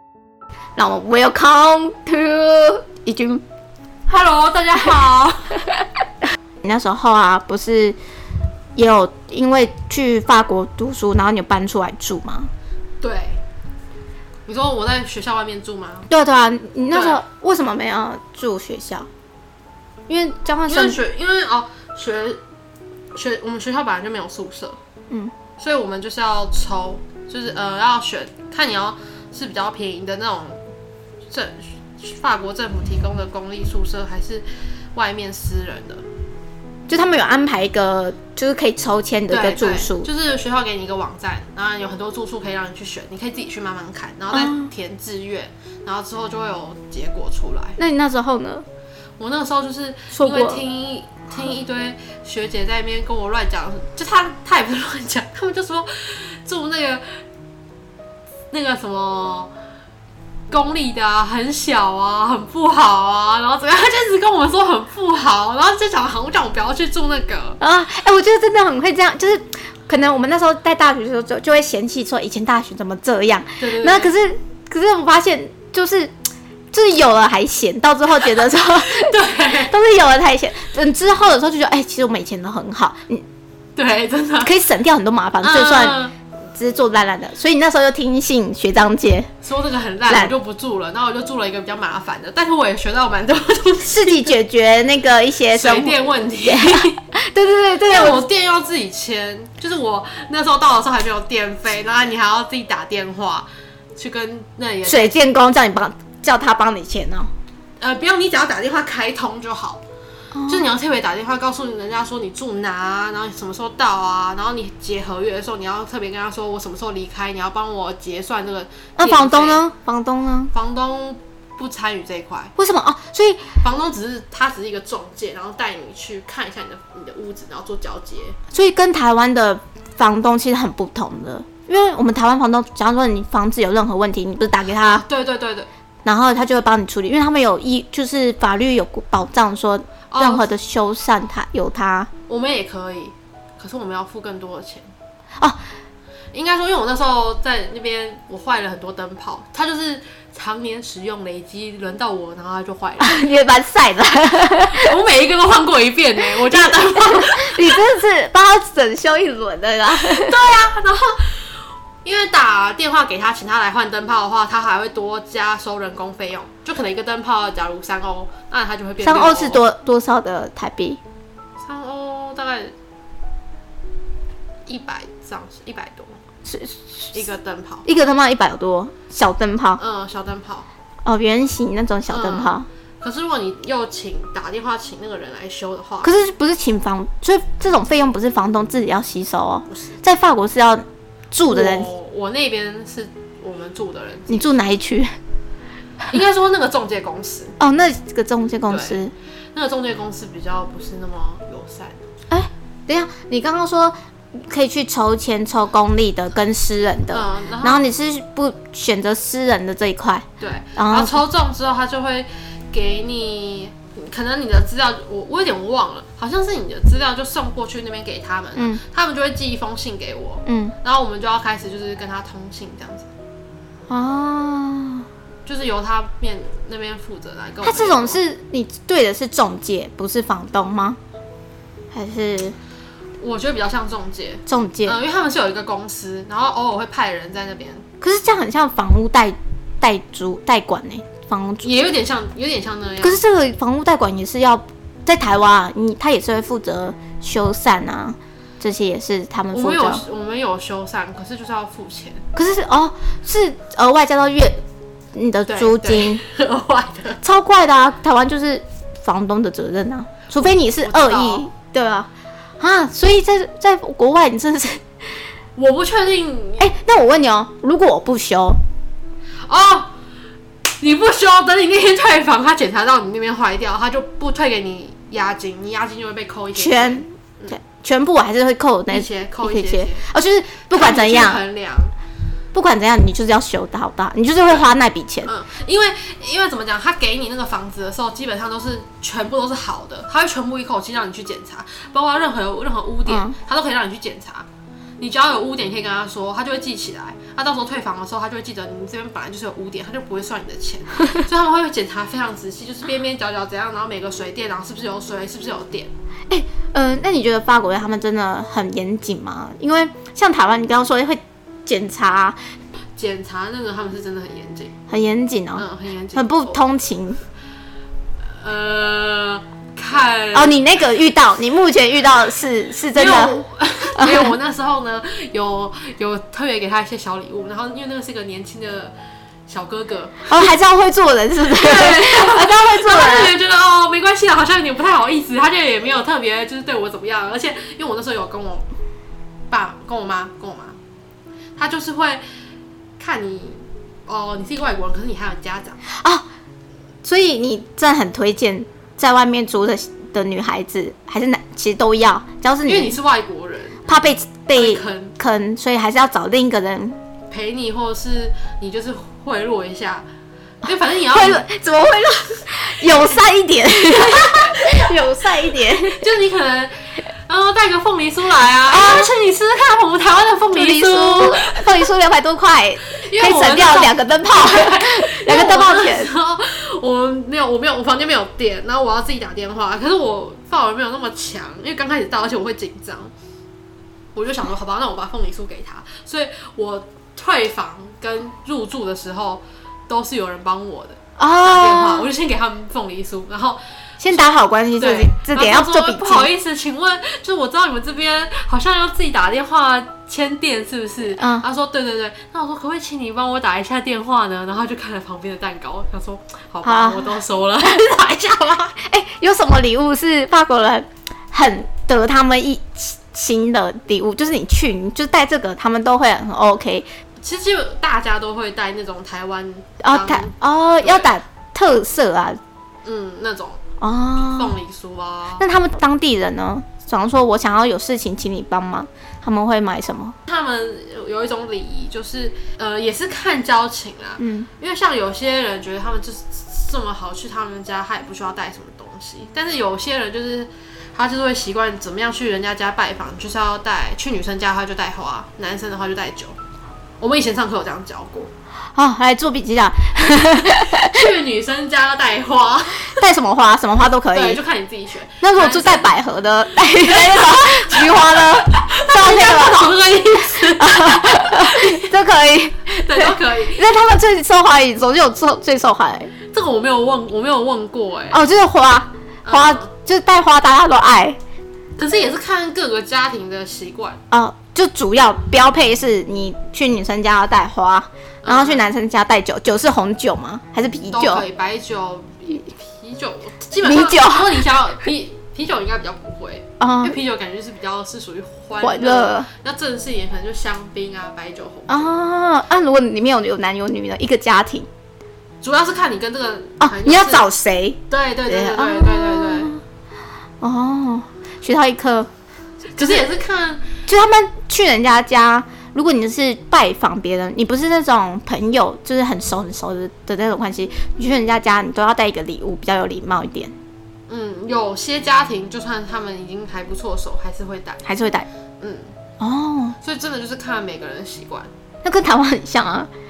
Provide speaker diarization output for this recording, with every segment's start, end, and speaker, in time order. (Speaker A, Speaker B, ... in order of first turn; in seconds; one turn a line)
Speaker A: 0.8-3.4
Speaker B: 4.1-5.6
Speaker A: 6.6-8.0
Speaker A: 8.8-12.5
Speaker B: 13.0-13.4
Speaker B: 14.4-16.1
Speaker A: 16.1-19.1
Speaker B: 16.9-17.2
Speaker A: 20.1-21.0
Speaker B: 20.7-22.4
Speaker B: 23.1-24.8
Speaker B: 25.6-30.6
Speaker B: 31.3-36.0
Speaker A: 36.9-40.1
Speaker B: 39.3-47.8
Speaker A: 44.3-44.7
Speaker A: 47.8-48.6
Speaker B: 49.2-57.2
Speaker A: 50.1-50.6
Speaker B: 58.5-59.5
Speaker B: 60.5-67.6
Speaker A: 67.6-76.1
Speaker B: 73.6-74.1
Speaker A: 76.7-79.1
Speaker B: 78.8-79.7
Speaker A: 79.7-83.2
Speaker B: 83.8-84.5
Speaker A: 84.4-86.0
Speaker B: 85.4-86.1
Speaker A: 86.5-89.3
Speaker B: 89.4-94.3
Speaker A: 90.1-90.3
Speaker A: 93.8-98.2
Speaker B: 95.5-97.0
Speaker B: 97.9-105.2
Speaker A: 104.8-107.3
Speaker B: 107.8-109.8
Speaker A: 110.3-110.7
Speaker B: 110.5-119.6
Speaker A: 119.0-120.5
Speaker B: 120.5-122.5
Speaker A: 122.6-123.6
Speaker B: 123.6-128.4
Speaker A: 128.5-135.0
Speaker B: 134.9-135.7
Speaker A: 136.0-142.1
Speaker B: 140.1-140.5
Speaker B: 142.3-144.9
Speaker B: 146.3-153.2
Speaker A: 153.0-154.9
Speaker B: 154.6-157.8
Speaker A: 156.4-160.4
Speaker B: 159.9-169.7
Speaker A: 169.0-171.0
Speaker B: 171.6-172.7
Speaker B: 174.7-176.2
Speaker A: 176.4-177.2
Speaker B: 177.1-177.8
Speaker A: 177.8-179.8
Speaker B: 179.8-180.7
Speaker A: 181.0-182.7
Speaker B: 182.1-186.1
Speaker A: 186.0-191.9
Speaker B: 189.7-190.0
Speaker B: 191.4-194.6
Speaker A: 194.3-195.2
Speaker B: 196.1-197.6
Speaker A: 197.6-199.1
Speaker B: 198.7-199.0
Speaker B: 199.5-202.1
Speaker A: 202.3-210.2
Speaker B: 207.1-207.8
Speaker B: 210.4-223.1
Speaker A: 210.8-211.2
Speaker A: 218.6-218.8
Speaker A: 220.4-220.7
Speaker A: 223.9-225.1
Speaker B: 225.4-228.2
Speaker A: 227.6-231.0
Speaker A: 231.9-232.6
Speaker B: 233.2-237.8
Speaker A: 234.5-235.0
Speaker A: 238.0-241.9
Speaker B: 241.6-243.2
Speaker A: 243.0-250.0
Speaker B: 249.5-252.2
Speaker A: 252.3-254.6
Speaker A: 255.1-256.2
Speaker B: 255.4-257.2
Speaker A: 257.2-264.9
Speaker B: 260.3-261.5
Speaker B: 265.6-266.7
Speaker A: 266.6-268.6
Speaker B: 269.4-269.9
Speaker B: 270.8-277.6
Speaker A: 276.5-281.4
Speaker B: 278.9-280.0
Speaker B: 280.7-281.9
Speaker A: 282.5-285.3
Speaker B: 284.5-294.5
Speaker A: 293.1-293.4
Speaker B: 295.0-305.9
Speaker A: 306.3-312.4
Speaker B: 312.9-314.7
Speaker A: 314.9-317.2
Speaker B: 315.6-316.6
Speaker B: 318.2-320.6
Speaker A: 320.3-323.4
Speaker B: 322.9-328.9
Speaker A: 324.0-324.4
Speaker B: 329.5-330.3
Speaker A: 330.3-333.4
Speaker B: 331.5-338.7
Speaker B: 339.5-340.8
Speaker B: 341.6-342.2
Speaker B: 343.0-345.8
Speaker A: 345.9-346.2
Speaker A: 347.0-352.9
Speaker B: 352.6-353.8
Speaker A: 353.9-356.9
Speaker B: 354.6-355.1
Speaker B: 357.3-360.1
Speaker B: 360.6-361.4
Speaker A: 361.1-366.0
Speaker B: 366.0-371.6
Speaker A: 368.7-369.1
Speaker A: 370.5-376.1
Speaker B: 372.9-383.1
Speaker B: 384.1-408.8
Speaker A: 391.2-392.1
Speaker A: 394.0-396.3
Speaker A: 401.2-401.5
Speaker A: 406.6-407.2
Speaker A: 408.8-416.9
Speaker B: 417.2-421.1
Speaker A: 419.8-422.4
Speaker B: 422.8-423.6
Speaker A: 423.8-424.5
Speaker B: 424.2-425.4
Speaker A: 425.4-430.1
Speaker B: 430.3-446.4
Speaker A: 434.2-434.5
Speaker B: 447.0-448.3
Speaker A: 448.7-451.0
Speaker B: 450.8-453.0
Speaker A: 452.9-454.4
Speaker B: 454.1-455.9
Speaker A: 455.2-459.7
Speaker B: 456.8-461.9
Speaker A: 460.6-466.1
Speaker B: 462.7-463.6
Speaker B: 466.3-468.2
Speaker A: 468.1-471.2
Speaker B: 469.2-469.7
Speaker B: 471.8-474.0
Speaker A: 474.1-481.2
Speaker B: 478.2-478.6
Speaker B: 480.9-491.9
Speaker A: 483.6-484.4
Speaker A: 486.6-487.0
Speaker A: 488.6-489.3
Speaker A: 491.7-494.7
Speaker B: 495.4-497.3
Speaker A: 496.6-499.6
Speaker B: 497.9-499.5
Speaker A: 500.4-502.1
Speaker B: 502.7-503.6
Speaker A: 502.8-503.1
Speaker A: 503.9-513.5
Speaker B: 514.1-517.8
Speaker A: 517.8-518.3
Speaker B: 518.6-518.9
Speaker A: 519.2-519.8
Speaker B: 519.8-521.5
Speaker A: 521.8-522.9